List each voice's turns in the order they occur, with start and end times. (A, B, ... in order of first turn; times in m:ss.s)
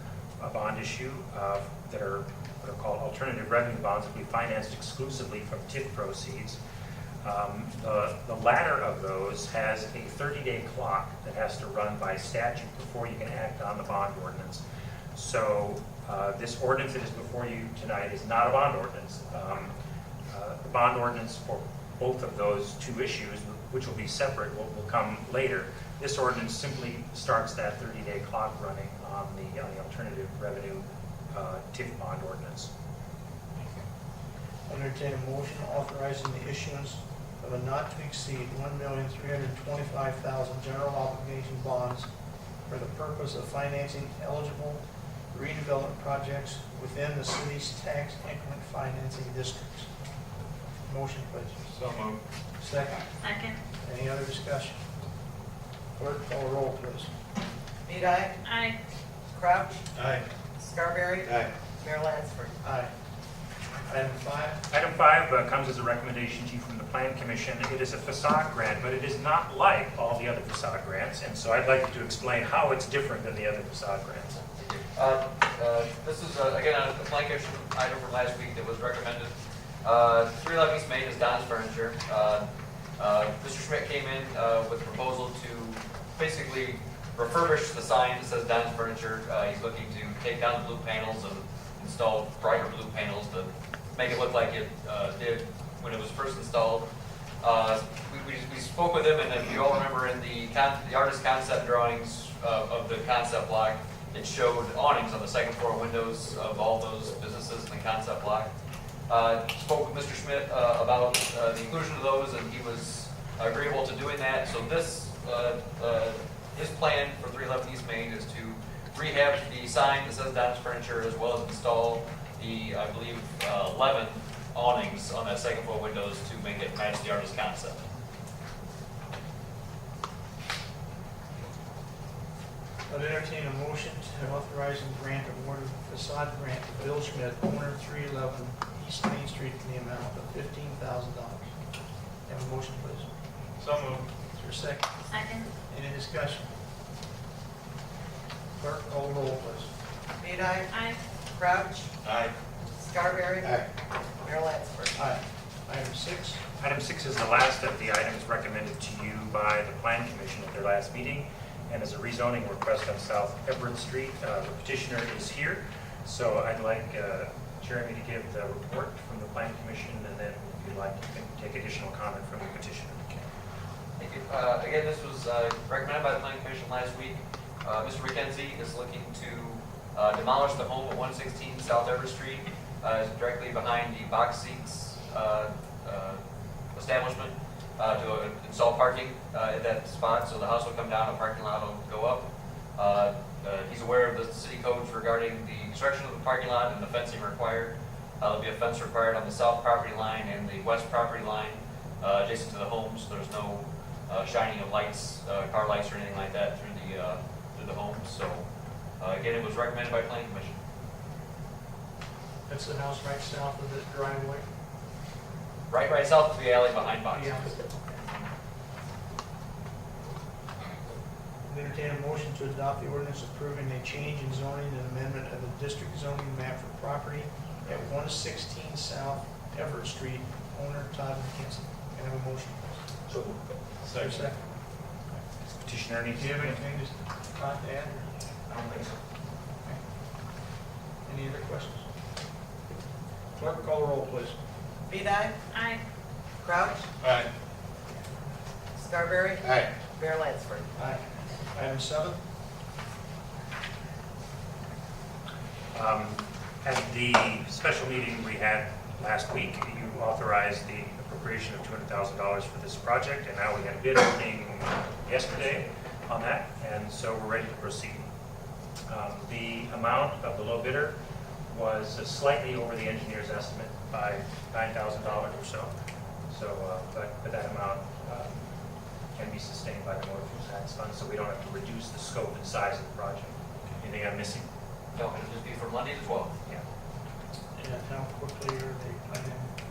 0:00.4-0:06.6 A
0:07.2-0:14.6 A
0:15.1-0:19.7 A
0:20.3-0:32.7 A
0:34.7-0:42.1 B
0:42.7-0:49.9 B
0:50.8-0:51.6 B
0:51.7-0:52.2 C
0:52.6-0:53.1 B
0:53.2-0:53.6 D
0:53.7-0:54.8 B
0:56.0-0:57.1 B
0:57.8-0:58.4 E
0:58.4-0:58.8 D
0:59.3-0:59.8 E
0:59.9-1:00.2 C
1:00.6-1:02.5 E
1:02.6-1:02.9 B
1:03.9-1:04.6 B
1:04.7-1:14.4 A
1:14.6-1:19.3 F
1:19.8-1:22.4 F
1:23.0-1:36.9 F
1:37.4-1:48.5 F
1:49.1-2:07.8 F
2:12.9-2:21.5 B
2:22.2-2:23.1 B
2:23.6-2:24.1 C
2:24.3-2:24.9 B
2:25.1-2:25.5 D
2:25.6-2:26.5 B
2:28.6-2:29.7 B
2:30.2-2:30.7 E
2:30.7-2:31.0 D
2:31.3-2:31.9 E
2:32.0-2:32.3 C
2:32.8-2:33.6 E
2:34.2-2:34.9 E
2:35.0-2:36.4 B
2:36.6-2:53.2 A
2:54.0-3:06.2 F
3:06.7-3:28.4 F
3:29.0-3:30.6 F
3:32.5-3:34.5 B
3:35.7-3:37.5 F
3:37.1-3:38.0 B
3:41.5-3:52.8 B
3:53.9-3:54.3 C
3:53.9-3:54.4 B
3:55.6-3:56.6 A
3:56.1-3:58.1 B
4:01.0-4:01.9 B
4:03.4-4:04.4 B
4:04.9-4:05.4 E
4:05.5-4:05.8 D
4:06.4-4:06.8 E
4:08.8-4:10.6 E
4:10.8-4:12.2 B
4:15.7-4:28.1 A
4:28.9-4:31.0 A
4:31.5-4:35.7 A
4:36.3-4:38.4 A
4:39.1-4:44.5 A
4:44.9-4:46.3 F
4:47.5-4:49.5 B